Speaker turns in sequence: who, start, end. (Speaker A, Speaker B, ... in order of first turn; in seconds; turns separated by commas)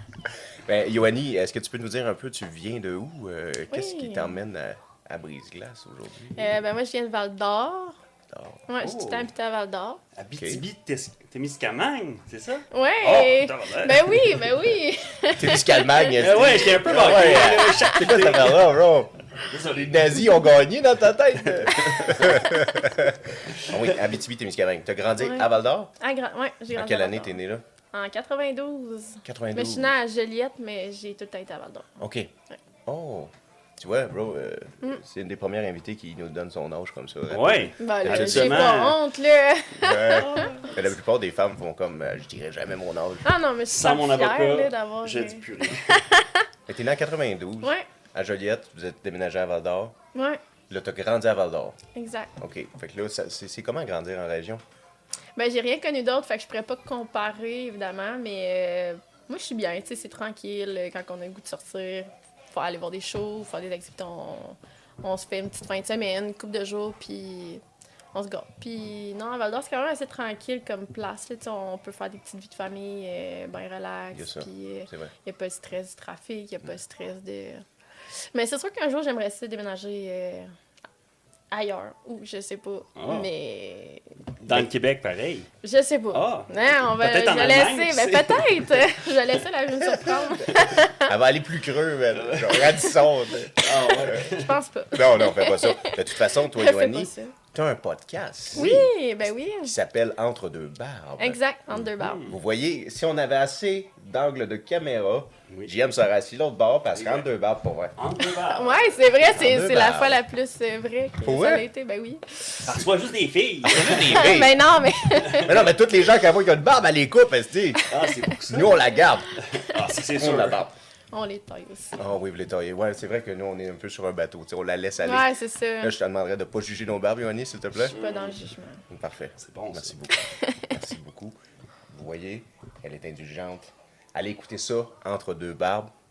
Speaker A: 0.3-6.5, Speaker B: 3.7-4.3, Speaker B: 6.3-8.0, Speaker A: 8.3-8.6, Speaker B: 8.7-10.0, Speaker C: 8.8-9.3, Speaker C: 10.2-14.5, Speaker A: 10.3-10.6, Speaker B: 12.7-16.2, Speaker A: 15.3-25.9, Speaker C: 16.2-18.8, Speaker C: 19.3-20.2, Speaker C: 21.4-22.5, Speaker C: 23.5-23.9, Speaker B: 25.2-27.4, Speaker A: 26.8-27.6, Speaker B: 27.9-31.9, Speaker A: 29.2-29.9, Speaker A: 32.0-32.3, Speaker A: 32.9-38.8, Speaker C: 37.3-39.0, Speaker B: 37.8-40.8, Speaker A: 39.8-43.3, Speaker B: 43.2-46.5, Speaker C: 43.7-45.9, Speaker A: 46.7-49.9, Speaker B: 50.1-50.4, Speaker A: 50.7-51.8, Speaker B: 51.9-52.3, Speaker A: 52.4-54.6, Speaker B: 55.4-67.6, Speaker B: 68.1-77.6, Speaker A: 74.1-75.1, Speaker B: 78.1-80.5, Speaker B: 81.5-84.1, Speaker C: 83.0-83.3, Speaker C: 84.4-85.5, Speaker B: 85.6-91.1, Speaker C: 86.1-89.4, Speaker A: 90.9-94.2, Speaker C: 92.1-94.6, Speaker B: 93.6-97.3, Speaker A: 94.9-98.9, Speaker C: 98.5-98.9, Speaker B: 98.5-99.7, Speaker A: 99.6-107.9, Speaker B: 101.2-102.2, Speaker C: 102.0-102.4, Speaker C: 106.9-107.3, Speaker C: 108.0-109.2, Speaker B: 108.5-112.7, Speaker A: 109.2-110.2, Speaker A: 111.2-111.6, Speaker C: 112.6-114.4, Speaker A: 113.7-114.6, Speaker B: 113.8-115.5, Speaker C: 115.2-115.5, Speaker A: 115.4-117.8, Speaker B: 117.8-118.7, Speaker C: 117.9-120.6, Speaker A: 118.5-119.3, Speaker A: 120.1-120.8, Speaker B: 121.1-122.0, Speaker A: 122.0-128.0, Speaker B: 125.0-125.9, Speaker C: 127.9-128.4, Speaker B: 127.9-128.8, Speaker A: 128.9-131.4, Speaker C: 129.4-130.0, Speaker B: 130.2-130.8, Speaker A: 131.9-135.9